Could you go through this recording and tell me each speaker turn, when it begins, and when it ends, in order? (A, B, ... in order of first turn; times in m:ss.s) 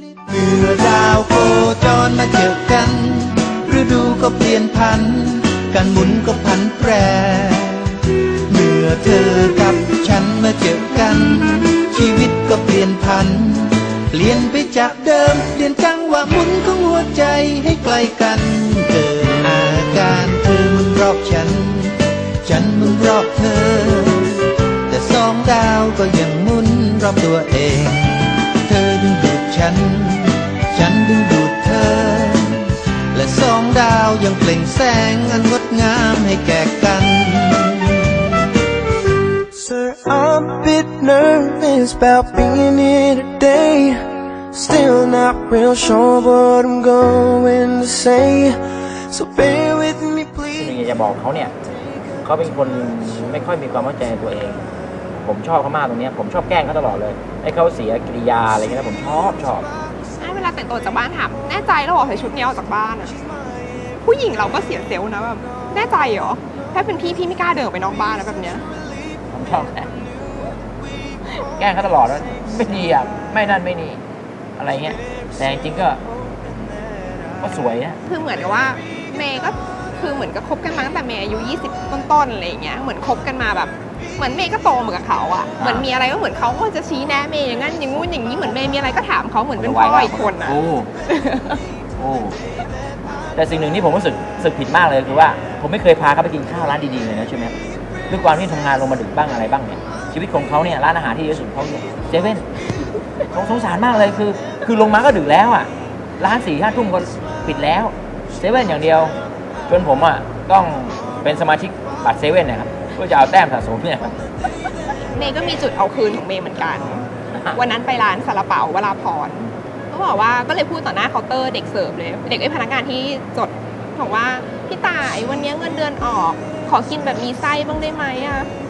0:00.3-0:38.3 A
0:39.5-0:50.8 B
0:50.6-0:51.5 C
0:52.2-0:59.7 C
1:00.2-1:03.2 D
1:04.0-1:08.6 D
1:09.3-1:09.9 C
1:11.4-1:14.0 C
1:14.6-1:16.0 C
1:17.4-1:18.0 C
1:18.1-1:31.6 D
1:25.6-1:25.9 C
1:29.6-1:30.9 C
1:32.0-1:32.4 C
1:33.4-1:37.5 C
1:38.1-1:42.4 C
1:43.3-1:49.2 C
1:49.7-1:54.2 C
1:55.1-2:08.5 D